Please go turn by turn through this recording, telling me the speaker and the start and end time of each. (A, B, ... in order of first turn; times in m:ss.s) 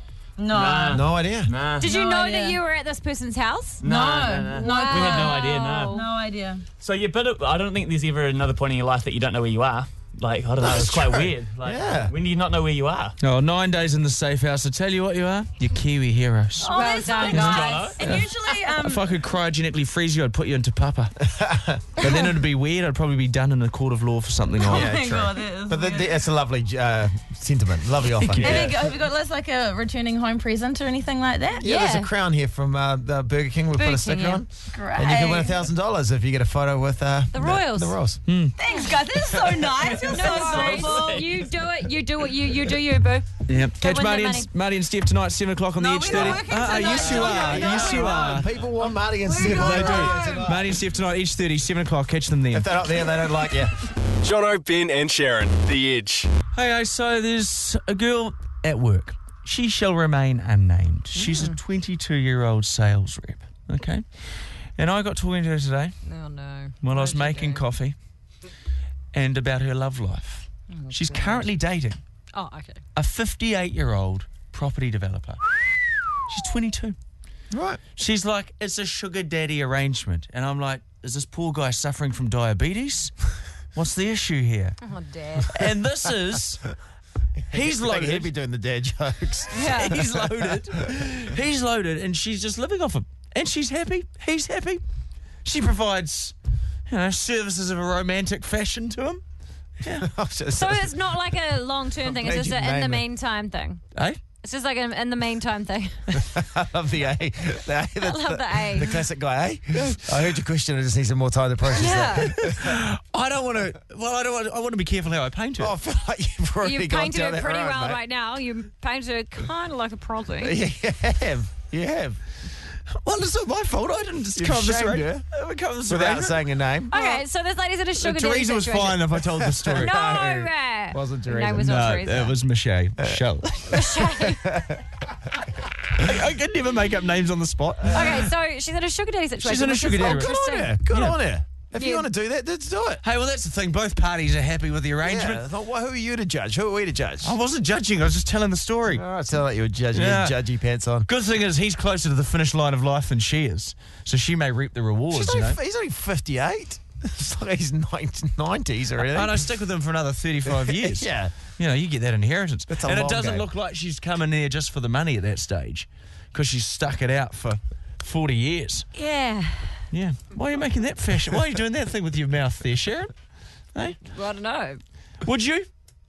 0:00.4-0:01.0 A
0:00.5-0:01.9 B
0:00.9-0:01.5 C
0:01.8-0:02.6 A
0:01.8-0:03.8 D
0:03.8-0:06.0 B
0:03.8-0:06.6 A
0:04.5-0:06.0 D
0:06.8-0:13.2 B
0:10.6-0:12.1 C
0:13.2-0:16.7 E
0:16.6-0:19.0 A
0:16.7-0:18.0 D
0:17.2-0:18.3 E
0:17.3-0:18.1 B
0:18.8-0:21.2 E
0:21.2-0:21.8 C
0:22.0-0:25.0 E
0:24.6-0:26.2 A
0:24.6-0:28.8 C
0:28.2-0:28.8 E
0:28.4-0:31.6 A
0:31.6-0:38.2 C
0:31.6-0:32.1 D
0:33.8-0:34.4 D
0:34.7-0:35.6 A
0:37.3-0:38.0 D
0:38.3-0:38.6 E
0:38.6-0:41.3 A
0:39.8-0:41.2 B
0:39.9-0:44.5 D
0:43.5-0:48.5 E
0:45.8-0:48.4 A
0:46.1-0:50.8 C
0:49.2-0:50.5 A
0:49.4-0:52.7 E
0:52.5-0:53.8 C
0:54.2-0:56.3 F
0:56.6-1:06.0 E
1:01.1-1:01.6 D
1:06.0-1:07.6 D
1:06.8-1:08.0 E
1:09.1-1:12.0 E
1:10.7-1:11.5 D
1:12.3-1:12.8 D
1:12.9-1:15.4 E
1:16.3-1:17.0 E
1:17.5-1:17.8 C
1:18.0-1:23.2 E
1:23.7-1:24.8 E
1:24.8-1:25.5 D
1:25.5-1:26.7 E
1:27.5-1:30.6 C
1:27.5-1:28.3 E
1:29.5-1:30.0 D
1:29.6-1:34.8 E
1:35.4-1:36.4 E
1:36.9-1:39.2 E
1:39.8-1:40.1 E
1:39.9-1:41.0 C
1:40.5-1:43.8 D
1:42.0-1:43.0 C
1:43.9-1:44.2 E
1:44.4-1:46.0 D
1:46.2-1:52.8 C
1:48.0-1:48.9 D
1:49.8-1:50.0 E
1:51.7-1:52.4 D
1:52.3-1:55.8 E
1:55.6-1:58.0 C
1:56.6-2:00.6 D
2:00.4-2:02.2 C
2:03.0-2:06.4 E
2:04.4-2:05.3 C
2:05.9-2:06.9 C
2:06.9-2:09.0 D
2:08.0-2:09.9 E
2:09.4-2:11.7 C
2:09.8-2:12.4 D
2:11.6-2:14.0 E
2:13.0-2:14.9 C
2:13.7-2:14.5 D
2:16.0-2:18.3 E
2:17.9-2:20.8 D
2:19.4-2:20.3 E
2:19.9-2:23.0 C
2:20.9-2:21.2 E
2:21.8-2:22.1 D
2:23.0-2:25.4 E
2:25.0-2:27.4 C
2:27.2-2:29.0 E
2:28.9-2:31.1 C
2:29.9-2:30.4 E
2:31.1-2:35.6 E
2:35.1-2:39.4 C
2:39.1-2:48.9 E
2:40.4-2:41.4 C
2:42.7-2:43.5 C
2:48.9-2:49.8 D
2:49.9-2:53.1 E
2:54.1-2:54.8 D
2:55.2-2:55.7 E